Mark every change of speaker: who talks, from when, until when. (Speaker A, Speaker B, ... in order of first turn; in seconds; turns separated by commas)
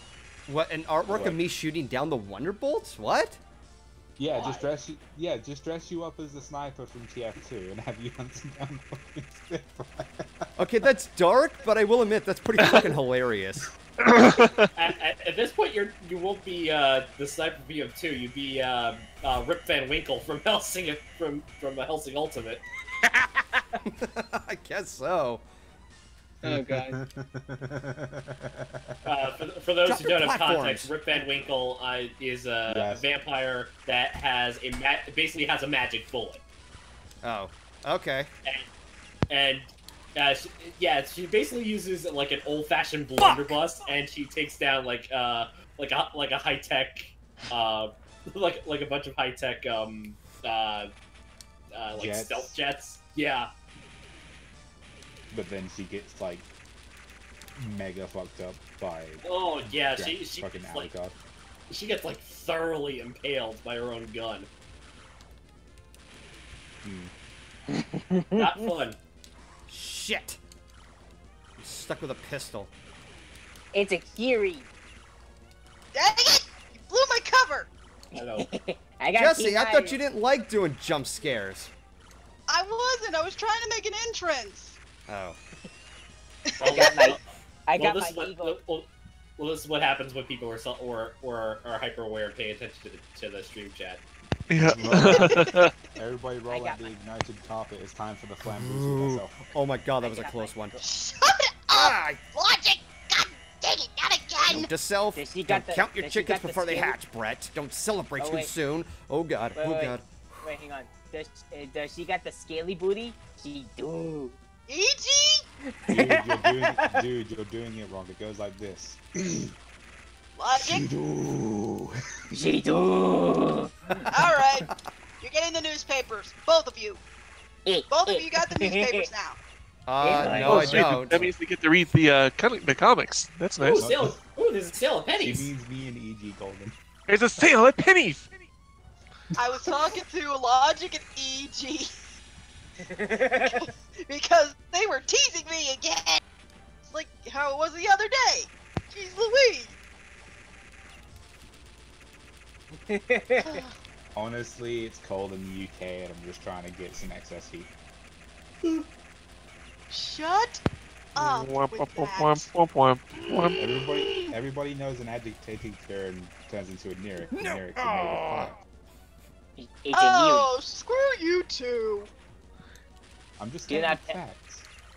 Speaker A: 0.5-3.4, Speaker B: 1.1-1.4, Speaker B: 4.2-10.5, Speaker C: 4.3-4.7, Speaker A: 10.6-13.7, Speaker D: 12.6-12.8, Speaker D: 14.1-14.7, Speaker C: 14.8-22.6, Speaker A: 23.8-25.4, Speaker B: 26.4-29.1, Speaker E: 26.4-27.0, Speaker C: 29.1-36.4, Speaker A: 29.9-31.2, Speaker B: 32.7-33.1, Speaker A: 37.2-38.3, Speaker C: 39.3-50.9, Speaker A: 43.2-43.6, Speaker C: 51.7-53.5, Speaker B: 51.9-52.5, Speaker B: 55.3-56.5, Speaker B: 57.6-61.2, Speaker C: 59.2-60.9, Speaker C: 61.7-64.5, Speaker B: 66.8-67.1, Speaker E: 67.7-68.5, Speaker C: 68.3-69.0, Speaker A: 69.7-70.4, Speaker A: 71.6-72.7, Speaker E: 73.7-74.7, Speaker F: 75.9-77.7, Speaker C: 78.1-78.5, Speaker E: 78.2-80.0, Speaker A: 79.1-81.7, Speaker F: 82.5-84.8, Speaker A: 85.1-85.4, Speaker F: 86.5-86.9, Speaker C: 86.6-94.0, Speaker E: 86.7-88.6, Speaker D: 94.5-95.7, Speaker B: 94.7-99.4, Speaker F: 95.2-95.5, Speaker E: 96.5-96.9, Speaker A: 98.4-100.8, Speaker E: 100.0-100.8, Speaker F: 100.8-104.7, Speaker A: 101.7-102.3, Speaker A: 104.5-110.5, Speaker E: 105.2-107.0, Speaker E: 108.2-108.5, Speaker E: 109.5-114.4, Speaker F: 114.7-115.4, Speaker E: 115.8-117.0, Speaker B: 115.9-119.5, Speaker F: 120.4-120.9, Speaker B: 120.6-121.9, Speaker E: 122.3-124.0, Speaker F: 124.1-124.7, Speaker F: 125.2-127.0, Speaker E: 127.7-129.1, Speaker F: 127.9-129.4, Speaker A: 129.9-131.2, Speaker E: 130.0-130.7, Speaker D: 130.3-133.9, Speaker B: 130.4-131.3, Speaker C: 133.6-135.5, Speaker B: 133.8-134.2, Speaker B: 135.2-136.7, Speaker D: 137.1-138.4, Speaker F: 139.4-141.9, Speaker E: 142.9-143.6, Speaker F: 143.4-146.2, Speaker F: 146.8-149.8, Speaker E: 152.9-153.6, Speaker F: 153.4-153.8, Speaker B: 154.2-157.7, Speaker F: 159.9-160.6, Speaker F: 161.2-162.5, Speaker D: 161.2-163.6, Speaker B: 163.6-168.6, Speaker A: 167.3-168.5, Speaker E: 169.6-170.5, Speaker F: 169.9-172.1, Speaker B: 173.4-174.7, Speaker E: 173.7-174.2